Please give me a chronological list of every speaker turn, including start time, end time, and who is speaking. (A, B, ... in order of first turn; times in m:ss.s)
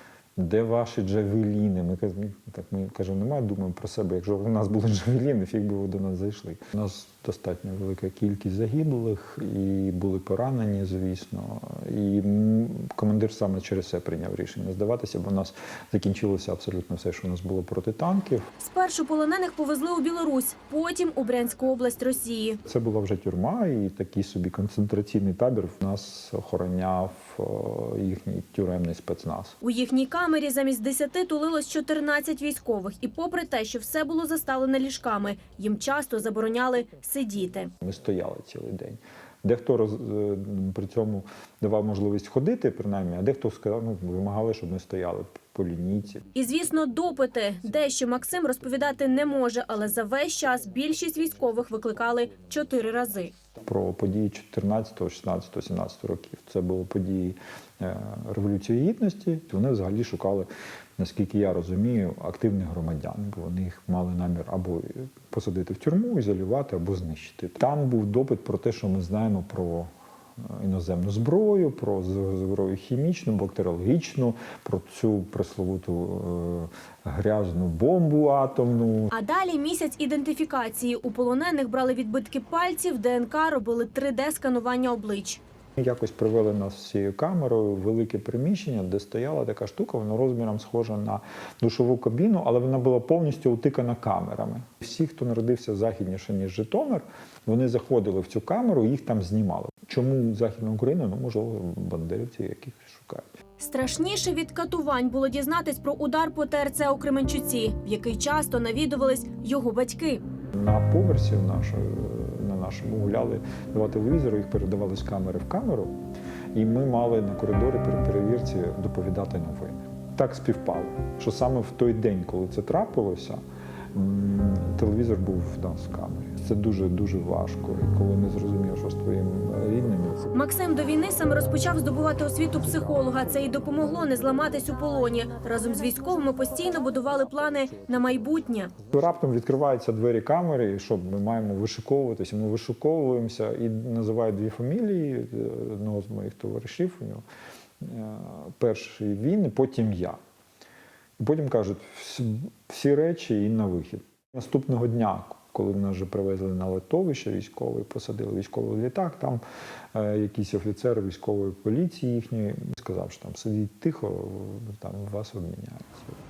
0:00.4-0:18.5 A
0:18.6-0:22.6 B
0:22.6-0:29.6 A
0:29.6-0:37.7 B
0:37.8-0:46.3 A
0:46.3-0:53.3 B
0:53.6-1:09.9 A
1:10.4-1:19.1 A
1:19.1-1:25.4 B
1:25.8-1:43.3 A
1:43.6-1:50.2 B
1:50.5-1:55.9 A
1:56.5-2:03.4 A
2:03.9-2:10.3 A
2:10.3-2:18.7 B
2:18.9-2:27.2 A
2:27.8-2:30.2 A
2:31.2-2:39.4 A
2:39.9-2:46.2 A